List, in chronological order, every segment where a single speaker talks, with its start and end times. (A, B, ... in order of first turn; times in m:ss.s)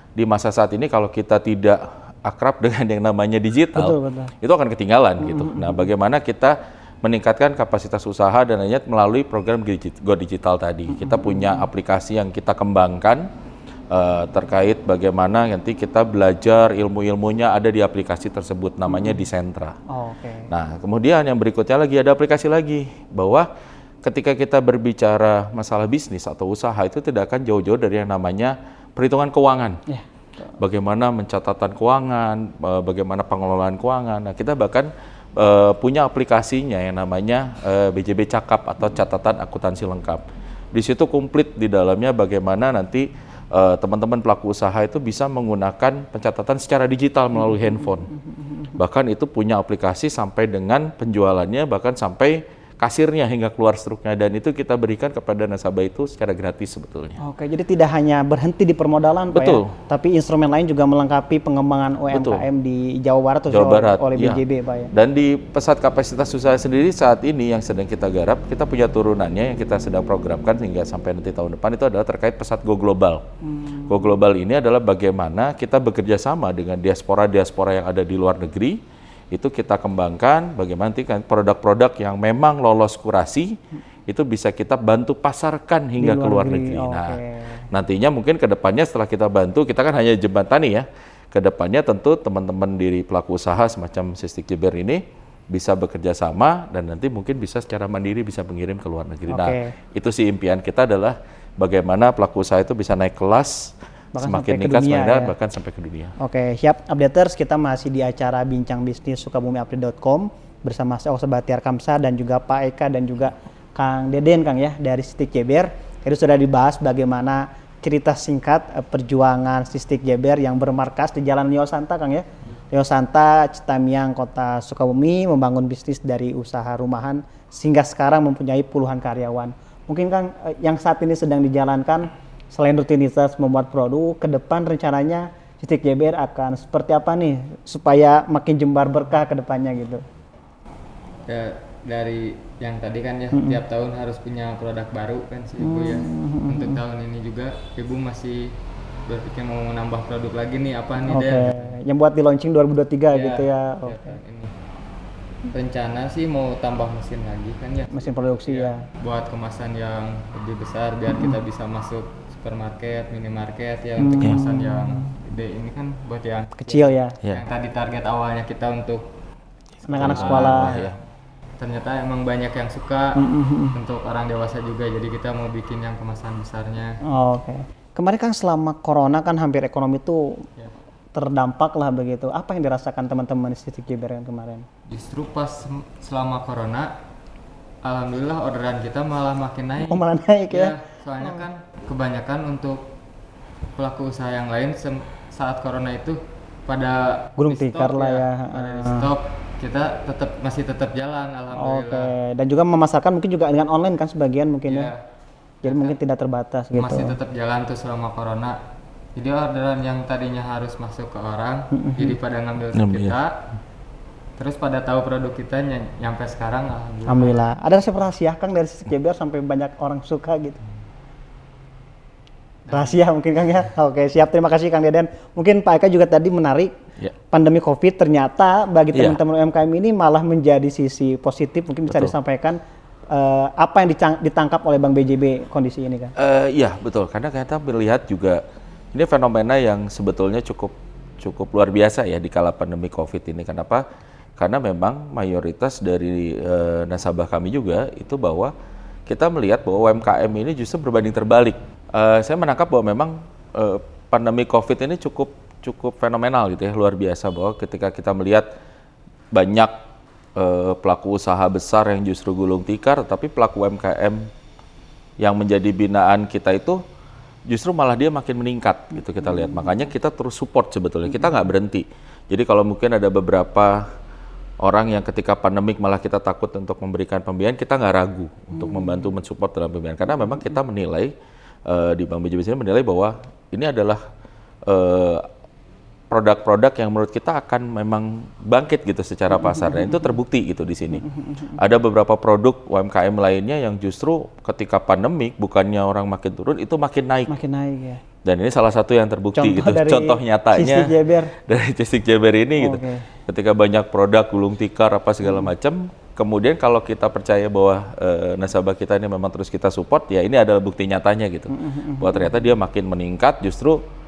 0:00.2-0:13.3 A
0:03.8-0:04.3 B
0:05.2-0:05.9 B
0:10.9-0:11.7 B
0:13.9-0:19.8 A
0:18.9-0:19.2 B
0:19.9-0:20.5 B
0:20.5-0:23.5 A
0:24.0-0:29.8 A
0:30.6-0:48.1 A
0:47.5-0:48.8 B
0:48.7-0:57.2 A
0:57.2-1:04.9 B
0:59.3-0:59.8 A
1:02.1-1:02.4 A
1:03.5-1:13.3 A
1:13.4-1:14.2 B
1:13.9-1:18.8 A
1:19.3-1:46.2 A
1:26.0-1:27.7 B
1:39.3-1:39.8 B
1:44.2-1:45.3 B
1:46.2-2:20.0 B
2:21.3-2:31.8 C
2:23.3-2:23.6 B
2:25.6-2:26.8 B
2:31.1-2:34.2 B
2:33.1-2:34.6 C
2:35.5-2:49.1 C
2:37.9-2:38.9 B
2:41.1-2:41.4 B
2:44.0-2:45.1 B
2:46.6-2:47.2 B
2:49.9-2:50.7 B
2:49.9-2:51.0 A
2:50.0-2:51.0 C
2:51.6-2:57.0 C
2:53.2-2:53.8 B
2:57.0-3:00.5 B
3:01.1-3:04.7 B
3:04.9-3:07.0 C
3:07.8-3:12.9 C
3:09.9-3:11.4 B
3:13.8-3:22.1 C
3:17.4-3:19.1 B
3:21.5-3:24.9 B
3:24.7-3:25.0 C
3:25.6-3:26.0 C
3:25.6-3:27.2 B
3:26.8-3:28.6 C
3:29.2-3:33.4 C
3:31.7-3:32.2 B
3:32.7-3:33.2 A
3:34.4-3:37.5 C
3:37.1-3:40.6 B
3:42.6-3:43.0 C
3:42.7-3:46.8 B
3:47.3-3:56.2 B
3:48.9-3:49.2 A
3:56.2-4:03.8 A
4:04.4-4:08.5 A
4:09.1-4:18.5 A
4:19.3-4:19.8 A
4:20.4-4:24.3 A
4:25.2-4:26.8 A
4:27.5-4:33.9 A
4:34.6-4:41.1 A
4:38.6-4:38.9 B
4:41.6-4:44.0 A
4:44.6-4:45.3 A
4:46.1-4:51.0 A
4:49.4-4:50.1 B
4:51.0-4:51.6 B
4:51.6-4:57.3 A
4:57.3-4:58.0 B
4:58.2-5:13.8 A
4:59.4-5:01.4 B
5:02.6-5:03.1 B
5:11.5-5:12.3 B